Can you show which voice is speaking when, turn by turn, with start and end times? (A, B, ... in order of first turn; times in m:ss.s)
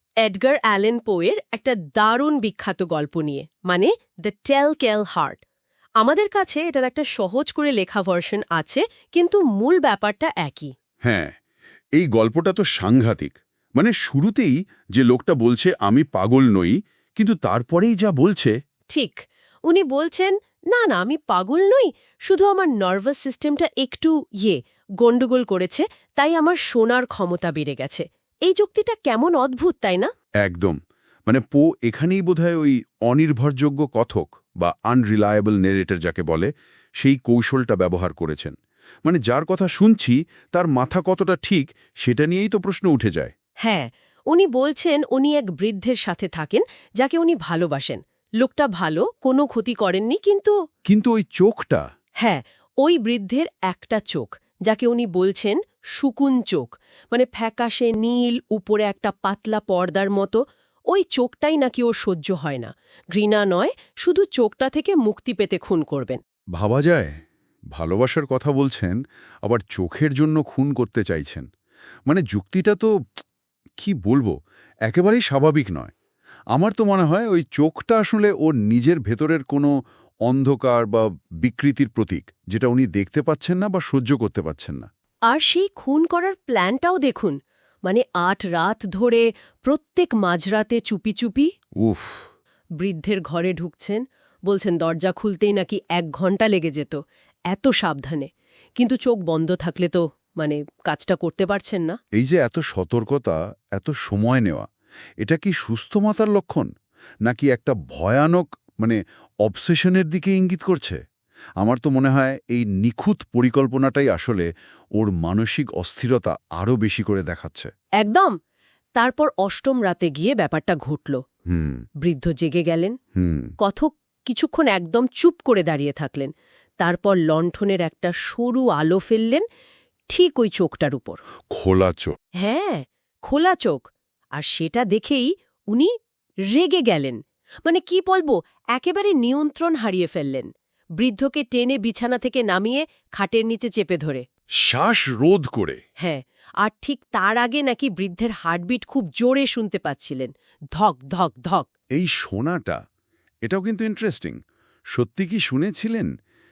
0:00.2-0:05.4 A
0:06.0-0:10.7 A
0:11.0-0:11.3 B
0:12.0-0:18.5 B
0:18.9-0:30.1 A
0:30.4-0:43.3 B
0:43.6-0:50.6 A
0:50.9-0:51.8 B
0:52.2-1:06.2 A
1:06.6-1:07.2 B
1:07.8-1:11.5 B
1:12.1-1:12.9 B
1:13.8-1:14.3 B
1:14.9-1:15.9 B
1:16.6-1:19.7 B
1:20.3-1:24.9 B
1:25.3-1:31.5 A
1:31.8-1:32.2 B
1:32.8-1:37.0 A
1:37.5-1:42.0 A
1:42.2-1:44.7 B
1:45.2-1:46.7 B
1:47.3-1:51.0 B
1:51.6-1:57.7 B
1:58.0-1:58.4 A
1:59.0-2:01.2 A
2:01.5-2:01.8 B
2:02.0-2:03.0 A
2:03.2-2:03.5 B
2:03.6-2:09.4 A
2:10.1-2:11.2 A
2:11.5-2:12.2 B
2:12.4-2:13.8 A
2:14.4-2:15.9 A
2:16.5-2:24.2 A
2:24.7-2:25.8 B
2:26.0-2:31.7 A
2:31.9-2:32.8 B
2:33.4-2:34.4 B
2:34.9-2:36.1 B